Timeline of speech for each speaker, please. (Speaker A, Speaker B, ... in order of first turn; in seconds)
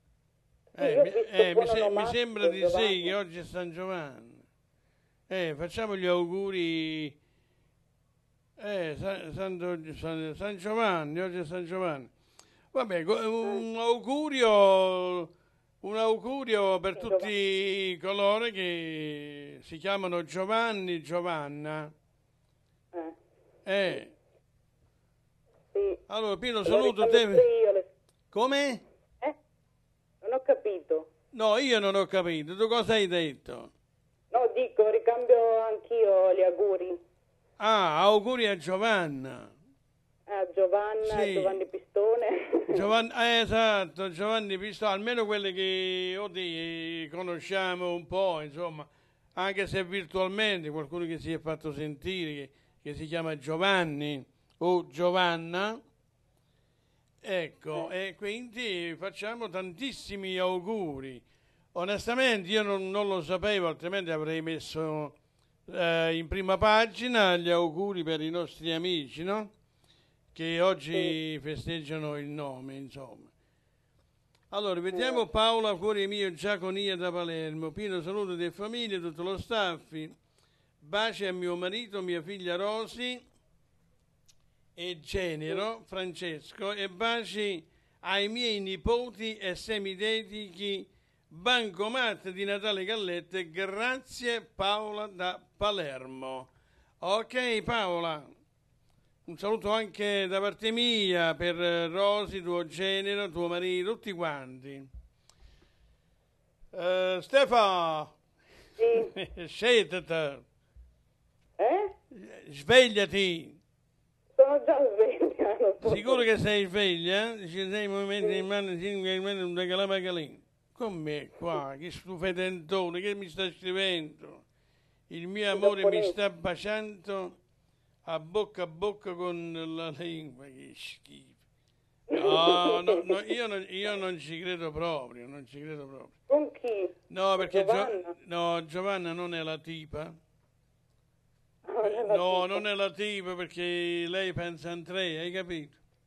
Speaker A: 0.8-4.5, 5.3-7.2, 8.6-12.1, 12.7-15.3, 15.8-21.9, 23.7-24.1, 26.1-27.4, 28.3-28.9, 31.3-33.7, 37.6-39.5, 41.0-41.6, 42.7-55.8, 57.2-65.2, 65.7-69.5, 70.3-73.3, 74.5-80.2, 80.8-83.2, 84.8-96.5, 97.0-98.3, 99.3-104.9, 106.7-108.2, 108.8-110.4, 112.1-113.6, 115.8-124.4, 125.1-127.4, 128.1-131.4, 132.1-136.1, 137.1-140.2, 141.8-145.8
Speaker B: 0.8-3.1, 17.0-17.3, 25.7-26.0, 26.7-27.9, 30.2-31.1, 34.3-37.0, 40.3-42.8, 74.9-75.2, 108.8-109.1, 111.6-111.9, 114.4-116.2, 125.6-126.1, 132.1-133.1, 136.3-138.1, 141.7-142.6